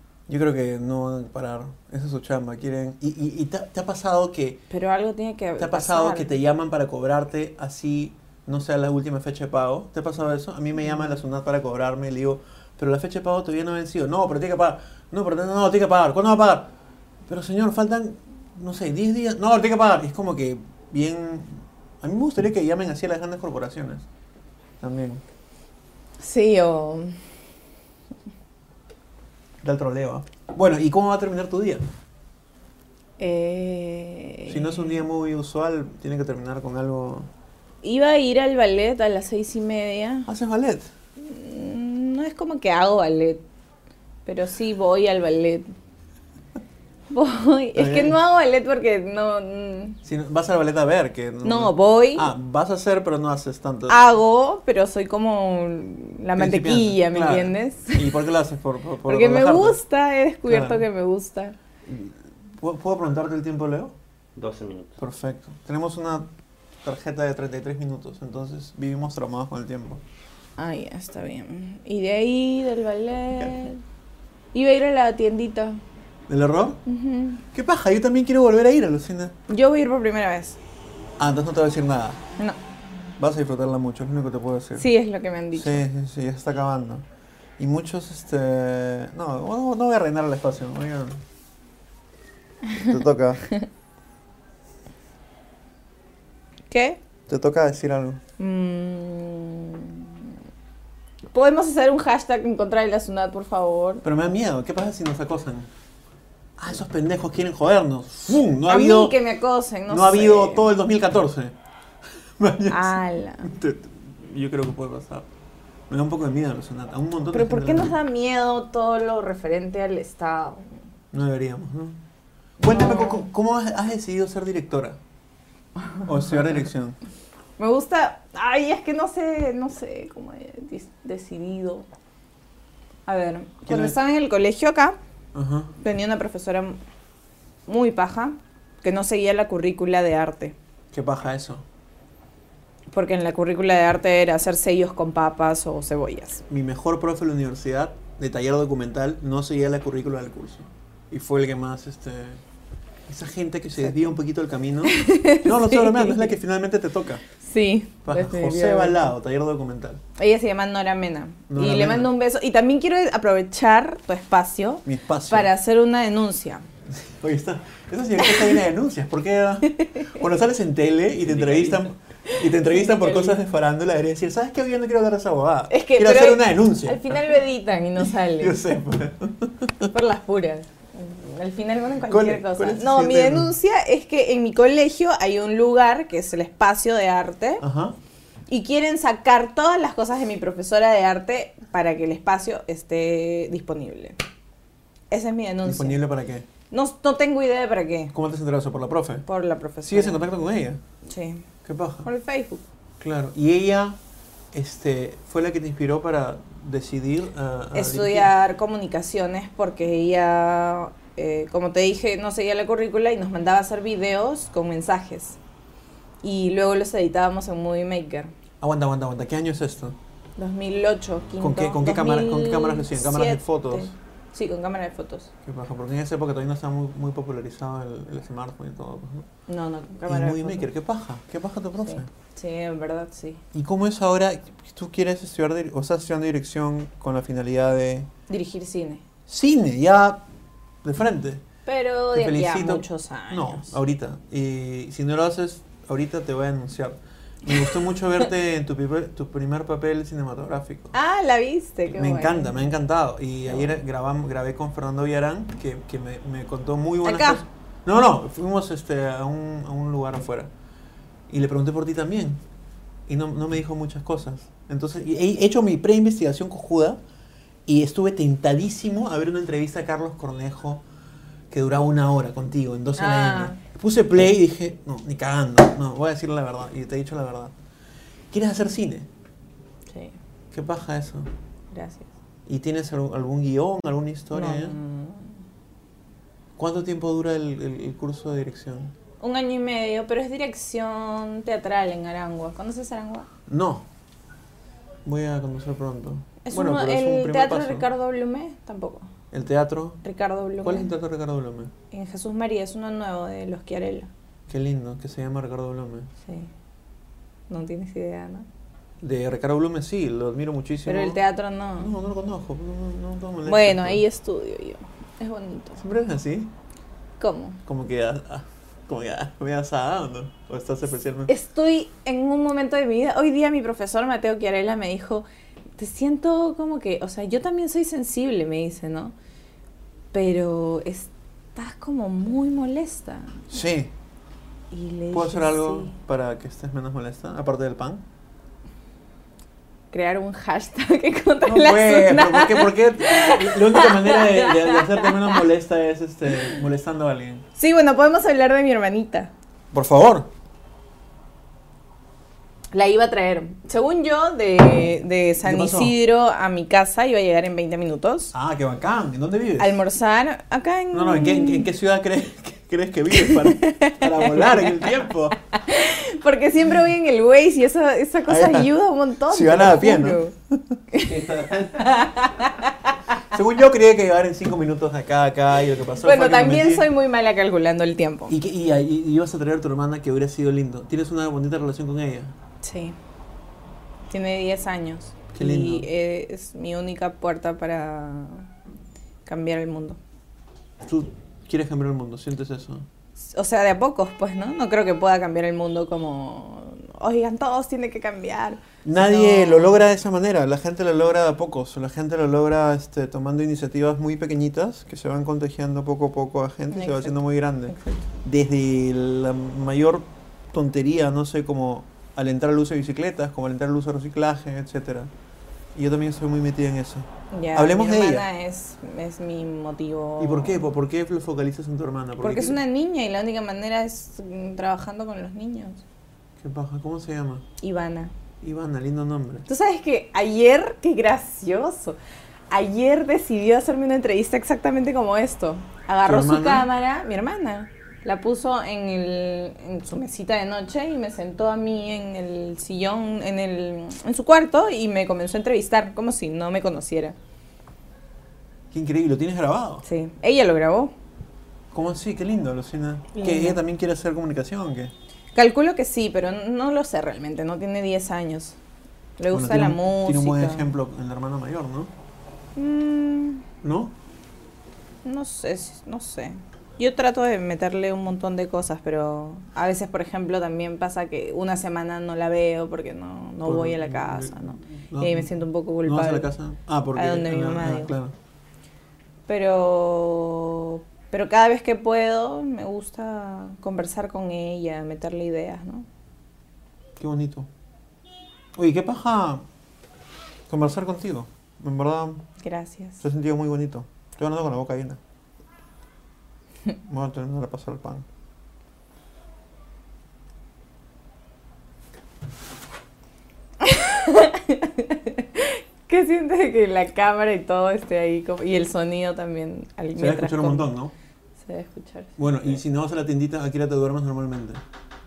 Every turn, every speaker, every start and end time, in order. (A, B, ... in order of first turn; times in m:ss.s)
0:00.3-0:04.6 A
0:04.7-0:06.3 B
0:05.6-0:16.7 A
0:17.3-0:24.1 A
0:24.8-0:25.2 A
0:26.2-0:27.2 B
0:29.6-0:31.8 A
0:33.2-0:35.0 B
0:34.5-0:37.3 A
0:37.8-0:40.3 B
0:40.3-0:40.9 A
0:41.2-0:43.4 B
0:44.3-0:45.7 B
0:47.1-0:50.0 B
0:47.8-0:48.2 A
0:50.0-0:54.0 A
0:51.4-0:52.3 B
0:53.9-0:58.2 B
0:56.4-0:59.8 A
0:59.1-1:01.6 B
1:00.5-1:00.8 A
1:01.9-1:03.9 A
1:04.4-1:05.0 C
1:05.0-1:06.3 A
1:06.8-1:10.0 A
1:10.6-1:13.8 B
1:14.5-1:15.8 B
1:16.3-1:16.8 A
1:16.9-1:17.4 B
1:17.5-1:19.4 A
1:19.5-1:20.6 B
1:21.2-1:22.2 A
1:23.2-1:24.9 A
1:24.8-1:25.8 B
1:25.5-1:27.0 A
1:27.6-1:31.2 A
1:32.7-1:32.9 B
1:32.8-1:33.5 A
1:36.7-1:37.0 B
1:37.3-1:38.2 A
1:38.4-1:40.3 B
1:41.3-1:44.0 B
1:44.0-1:45.7 A
1:46.6-1:49.2 A
1:48.7-1:50.7 B
1:49.9-1:51.6 A
1:52.4-1:55.3 A
1:52.7-1:53.5 B
1:55.9-1:58.0 A
1:57.3-2:00.7 B
2:01.1-2:02.0 A
2:02.6-2:05.0 A
2:02.7-2:03.2 B
2:06.0-2:07.0 A
2:07.6-2:11.9 B
2:13.1-2:15.0 B
2:13.6-2:14.0 A
2:15.3-2:15.7 A
2:15.8-2:16.8 B
2:17.7-2:20.6 B
2:20.9-2:21.6 A
2:22.9-2:26.4 B
2:26.5-2:32.4 A
2:33.1-2:37.2 A
2:33.8-2:34.1 B
2:34.9-2:36.4 B
2:37.4-2:39.1 B
2:38.0-2:40.0 A
2:40.2-2:46.7 B
2:41.5-2:42.1 A
2:44.8-2:45.5 A
2:46.9-2:57.2 A
2:48.2-2:48.6 B
2:49.7-2:50.2 B
2:51.2-2:51.9 C
2:52.3-2:53.4 B
2:55.7-2:58.6 B
2:58.0-2:59.9 A
2:59.9-3:07.6 B
3:02.1-3:03.5 A
3:07.6-3:08.0 A
3:08.5-3:14.2 B
3:15.1-3:16.0 B
3:15.6-3:16.5 A
3:16.7-3:18.1 B
3:18.1-3:19.2 A
3:19.3-3:20.3 B
3:19.8-3:20.8 A
3:21.0-3:21.5 B
3:21.6-3:22.1 A
3:22.0-3:22.6 B
3:23.0-3:24.0 A
3:24.5-3:28.3 A
3:27.7-3:35.4 B
3:36.2-3:38.3 B
3:38.6-3:40.0 A
3:40.4-3:45.3 B
3:41.4-3:43.9 A
3:45.4-3:49.3 A
3:49.5-3:50.7 B
3:50.1-3:52.1 A
3:51.8-3:53.4 B
3:53.5-3:58.1 A
3:58.3-3:59.0 B
3:59.3-4:00.2 A
4:00.8-4:01.4 A
4:01.7-4:03.8 B
4:02.1-4:10.9 A
4:07.5-4:07.8 B
4:10.9-4:12.6 B
4:12.0-4:20.5 A
4:17.0-4:17.4 B
4:21.3-4:22.4 A
4:23.1-4:27.0 A
4:27.7-4:30.8 A
4:31.5-4:37.5 A
4:33.0-4:33.6 B
4:38.3-4:39.1 A
4:40.5-4:41.3 A
4:41.7-4:42.1 B
4:42.5-4:44.8 A
4:44.3-4:45.4 B
4:46.6-4:48.9 A
4:49.2-4:53.3 B
4:53.5-4:53.9 A
4:55.1-4:57.9 A
4:56.4-4:59.1 B
4:59.3-5:00.0 A
5:00.0-5:00.9 B
5:00.6-5:01.7 A
5:01.9-5:04.1 B
5:04.5-5:06.1 A
5:06.2-5:06.5 B
5:07.5-5:08.5 B
5:09.0-5:11.2 A
5:10.9-5:11.9 B
5:11.8-5:14.0 A
5:13.5-5:15.8 B
5:15.8-5:16.5 A
5:17.2-5:17.6 B
5:17.6-5:21.3 A
5:21.3-5:25.3 B
5:25.8-5:29.2 B
5:30.1-5:33.4 B
5:33.5-5:33.9 A
5:34.7-5:35.9 B
5:35.1-5:38.0 A
5:39.9-5:45.4 B
5:41.5-5:47.4 A
5:47.6-5:49.3 B
5:49.7-5:50.3 A
5:52.7-5:58.3 B
5:55.4-5:55.9 A
5:58.3-5:59.8 A
5:59.6-6:01.7 B
6:00.9-6:05.4 A
6:03.1-6:10.3 B
6:08.3-6:08.7 A
6:09.3-6:10.8 A
6:10.9-6:13.0 B
6:11.0-6:12.0 C
6:13.3-6:16.9 A
6:16.0-6:18.4 B
6:18.3-6:22.4 A
6:22.6-6:23.0 B
6:24.1-6:28.5 B
6:25.3-6:25.9 A
6:29.3-6:30.0 B
6:30.8-6:32.9 A
6:33.2-6:39.8 B
6:38.8-6:55.1 A
6:46.7-6:47.2 B
6:47.7-6:48.0 B
6:55.8-6:58.3 A
6:57.3-7:00.7 B
7:00.2-7:02.6 A
7:02.2-7:05.8 B
7:06.4-7:07.4 A
7:07.6-7:08.1 B
7:08.4-7:09.5 A
7:09.5-7:12.0 B
7:12.5-7:27.2 B
7:16.1-7:16.7 A
7:28.7-7:29.8 A
7:29.8-7:30.9 B
7:31.7-7:34.9 A
7:33.1-7:33.6 B
7:35.4-7:38.6 B
7:39.2-7:40.7 B
7:39.3-7:41.9 A
7:42.6-7:43.4 B
7:43.6-7:44.0 A
7:45.0-7:56.3 B
7:53.4-7:58.1 A
7:57.0-7:58.0 B
7:59.3-8:05.9 B
8:07.0-8:07.5 A
8:08.6-8:09.4 A
8:10.5-8:12.2 A
8:12.4-8:13.0 B
8:13.0-8:15.0 A
8:16.8-8:18.1 A
8:23.6-8:30.7 B
8:30.0-8:30.9 A
8:31.4-8:32.6 B
8:32.2-8:34.6 A